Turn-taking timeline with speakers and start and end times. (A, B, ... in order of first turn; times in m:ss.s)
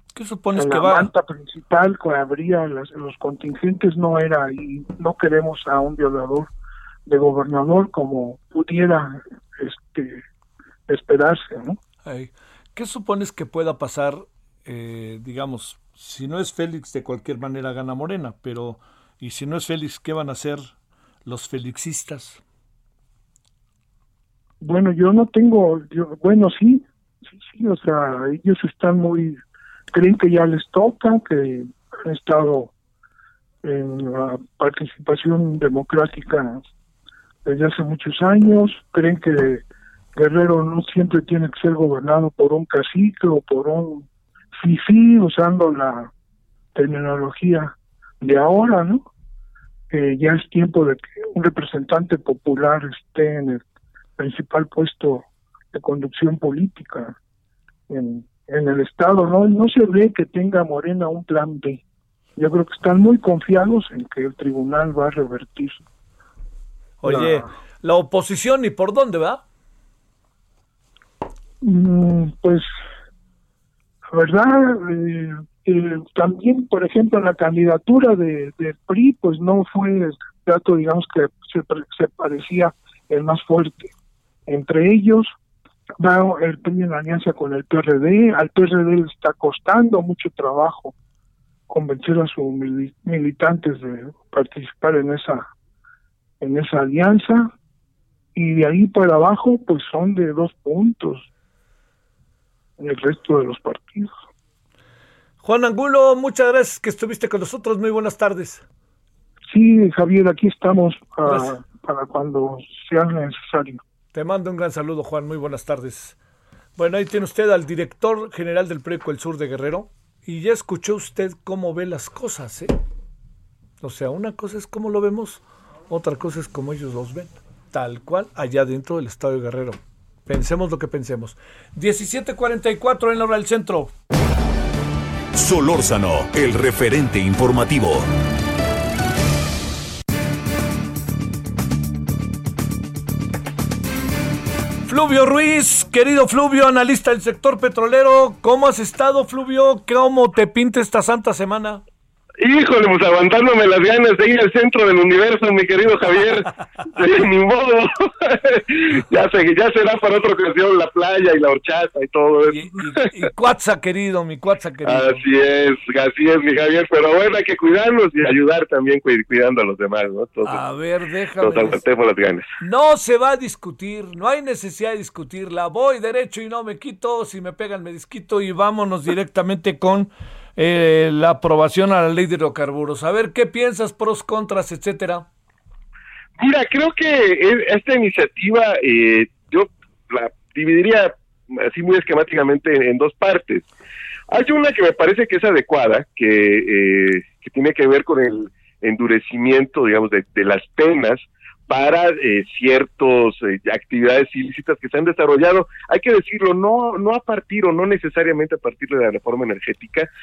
0:00.2-0:01.1 A
0:00.6-0:06.5 B
0:07.1-0:10.2 B
0:10.9-0:11.8 B
0:12.0-0:20.7 A
0:21.2-0:22.4 A
0:24.6-0:29.4 B
0:29.9-0:32.7 B
0:33.6-0:36.7 B
0:37.4-0:39.6 B
0:40.2-0:44.1 B
0:44.6-0:46.1 B
0:46.8-0:49.1 B
0:49.9-0:53.6 B
0:54.2-0:57.2 B
0:57.9-1:01.8 B
1:02.4-1:05.8 B
1:07.0-1:09.4 A
1:07.1-1:07.5 B
1:11.6-1:12.7 B
1:14.1-1:23.9 B
1:24.5-1:25.3 B
1:26.0-1:30.9 B
1:31.7-1:35.5 B
1:36.4-1:37.5 B
1:38.4-1:41.3 B
1:42.8-1:44.2 B
1:45.4-1:48.6 A
1:49.5-1:53.8 B
1:51.3-1:51.5 A
1:54.1-1:56.2 A
1:56.8-2:02.7 A
2:03.8-2:13.9 A
2:15.3-2:18.1 C
2:24.9-2:31.8 A
2:32.4-2:43.3 D
2:42.5-2:45.2 A
2:44.8-2:50.6 D
2:50.4-2:51.8 A
2:51.4-2:52.5 D
2:52.6-3:05.3 A
3:06.4-3:13.7 D
3:14.3-3:30.1 D